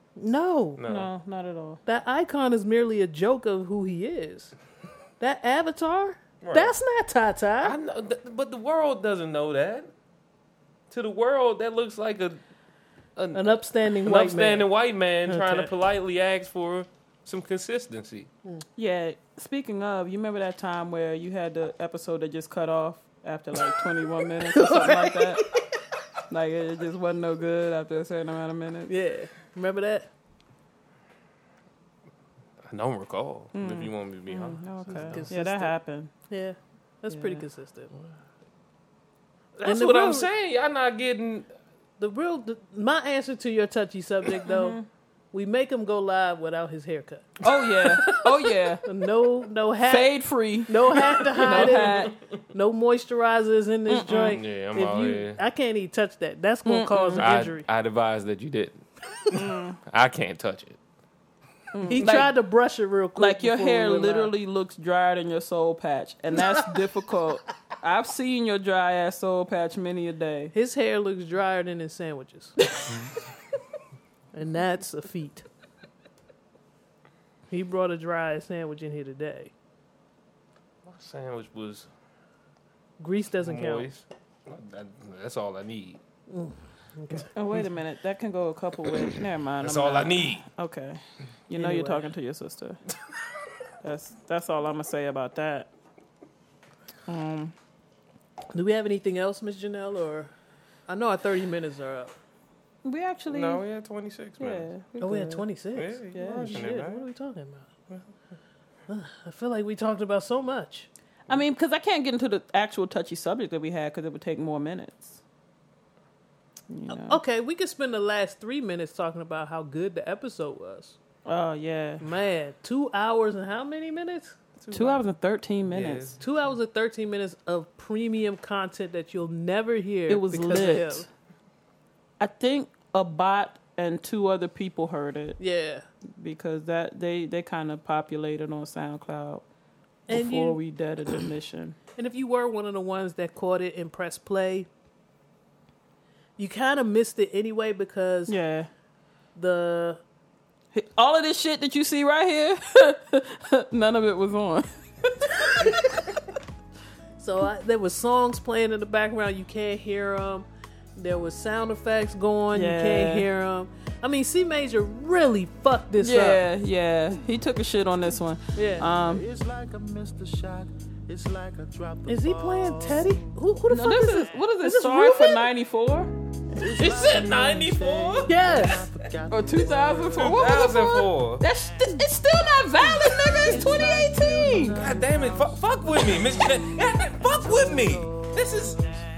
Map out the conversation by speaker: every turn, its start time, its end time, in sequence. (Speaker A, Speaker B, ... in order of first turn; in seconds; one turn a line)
Speaker A: 0.2-0.8
Speaker B: 0.8-1.1
Speaker C: 0.8-1.8
Speaker A: 1.9-4.5
Speaker A: 5.2-7.8
Speaker B: 6.4-6.7
Speaker B: 7.6-9.9
Speaker B: 10.9-12.4
Speaker B: 13.2-18.3
Speaker A: 13.3-14.7
Speaker A: 15.3-15.7
Speaker C: 18.8-25.4
Speaker A: 24.4-25.4
Speaker C: 26.3-28.9
Speaker A: 28.9-30.1
Speaker B: 32.7-35.3
Speaker C: 33.5-36.1
Speaker A: 34.9-35.7
Speaker A: 36.3-37.9
Speaker C: 37.1-37.4
Speaker B: 39.6-41.5
Speaker A: 39.6-40.3
Speaker A: 42.0-44.8
Speaker C: 44.5-44.8
Speaker A: 45.3-47.4
Speaker C: 47.4-48.8
Speaker A: 48.8-50.1
Speaker C: 49.9-52.1
Speaker A: 50.6-57.7
Speaker B: 51.5-52.0
Speaker C: 53.9-54.4
Speaker B: 54.1-55.4
Speaker C: 56.6-57.3
Speaker B: 57.2-60.8
Speaker C: 59.3-59.8
Speaker C: 61.7-62.3
Speaker A: 61.9-64.3
Speaker C: 63.2-70.5
Speaker A: 70.5-72.5
Speaker A: 74.3-75.4
Speaker A: 77.5-79.5
Speaker B: 80.8-81.9
Speaker A: 83.0-83.9
Speaker B: 83.4-86.0
Speaker A: 86.3-87.3
Speaker C: 87.3-92.8
Speaker B: 89.6-90.4
Speaker A: 91.5-92.1
Speaker C: 93.8-95.7
Speaker C: 97.1-97.5
Speaker A: 98.5-100.3
Speaker A: 100.9-102.1
Speaker C: 102.8-103.6
Speaker B: 103.3-104.7
Speaker C: 104.4-105.4
Speaker A: 105.0-107.7
Speaker B: 105.8-107.0
Speaker C: 106.1-106.7
Speaker A: 108.9-110.9
Speaker C: 111.3-115.2
Speaker C: 116.7-117.2
Speaker A: 116.9-121.0
Speaker C: 121.2-122.1
Speaker A: 122.0-124.4
Speaker B: 124.6-125.0
Speaker C: 124.7-126.2
Speaker B: 125.7-126.2
Speaker A: 126.2-131.1
Speaker C: 130.1-131.1
Speaker C: 132.2-135.4
Speaker A: 135.4-135.8
Speaker C: 136.2-139.4
Speaker A: 140.1-140.6
Speaker C: 140.1-141.8
Speaker A: 141.9-144.7
Speaker A: 146.4-148.3
Speaker C: 148.3-148.7
Speaker A: 149.3-150.0
Speaker C: 150.7-156.1
Speaker A: 157.2-166.4
Speaker C: 162.5-163.3
Speaker C: 166.0-169.2
Speaker A: 168.5-168.9
Speaker D: 169.0-173.2
Speaker A: 172.1-175.5
Speaker C: 173.7-176.1
Speaker D: 176.5-180.4
Speaker B: 176.8-178.3
Speaker A: 178.2-178.8
Speaker C: 179.3-184.8
Speaker B: 180.2-181.4
Speaker D: 182.9-188.9
Speaker B: 184.8-188.8